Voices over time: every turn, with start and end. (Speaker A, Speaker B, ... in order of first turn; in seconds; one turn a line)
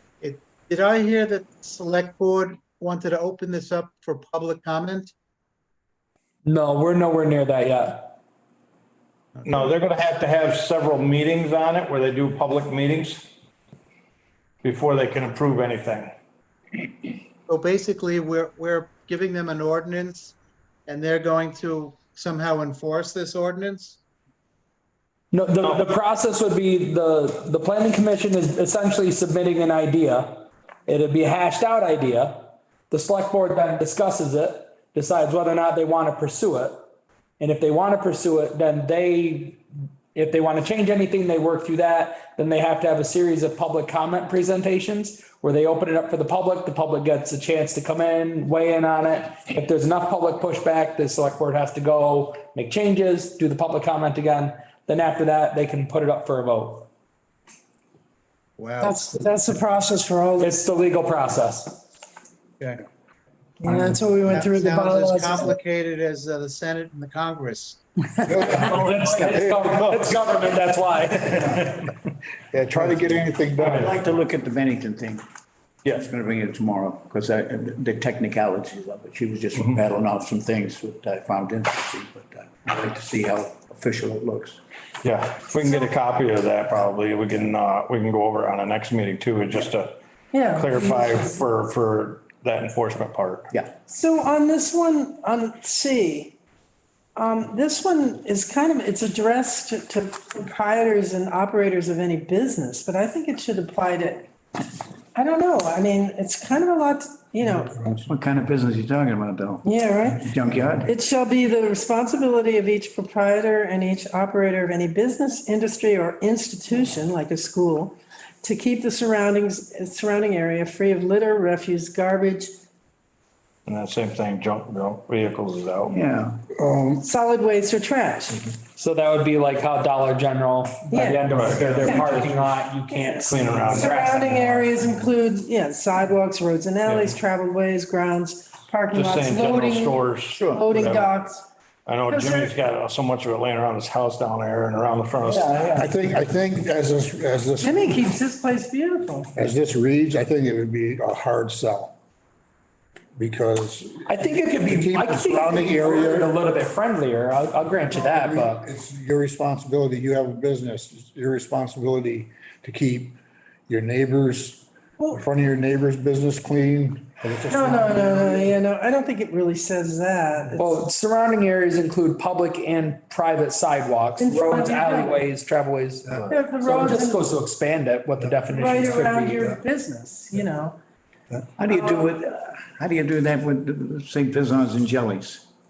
Speaker A: 0.2-5.1
Speaker B: 6.5-8.2
Speaker A: 9.4-9.8
Speaker C: 9.4-13.3
Speaker C: 14.6-16.1
Speaker A: 17.5-24.0
Speaker B: 25.3-36.9
Speaker C: 25.6-25.9
Speaker B: 37.4-39.6
Speaker B: 40.1-56.9
Speaker A: 58.6-59.0
Speaker D: 58.8-60.6
Speaker B: 60.4-61.8
Speaker A: 62.6-62.9
Speaker D: 63.6-65.5
Speaker A: 64.3-69.4
Speaker E: 68.3-70.2
Speaker B: 68.4-71.9
Speaker E: 72.5-74.0
Speaker F: 73.6-75.2
Speaker F: 75.9-84.6
Speaker C: 85.0-90.0
Speaker D: 90.3-91.4
Speaker C: 90.5-93.5
Speaker D: 93.9-96.4
Speaker D: 97.2-104.3
Speaker D: 105.1-107.8
Speaker E: 107.6-108.0
Speaker F: 108.1-110.9
Speaker D: 109.7-110.3
Speaker D: 110.8-122.5
Speaker C: 123.7-126.0
Speaker F: 125.9-126.4
Speaker E: 126.5-127.0
Speaker D: 127.0-128.5
Speaker B: 128.8-134.4
Speaker D: 130.9-141.5
Speaker C: 131.3-132.3
Speaker C: 133.3-134.6
Speaker C: 136.9-137.2
Speaker C: 138.9-141.1
Speaker F: 140.2-140.7
Speaker C: 141.9-145.5
Speaker D: 142.1-142.6
Speaker F: 145.2-145.9
Speaker E: 145.6-148.0
Speaker D: 147.6-149.3
Speaker E: 149.3-151.9
Speaker E: 153.2-156.3
Speaker B: 154.1-158.7
Speaker E: 157.9-163.2
Speaker E: 163.7-168.6
Speaker D: 167.5-170.8
Speaker B: 170.6-179.5
Speaker D: 174.2-175.3
Speaker D: 176.3-177.3
Speaker D: 178.5-180.8
Speaker F: 181.6-185.5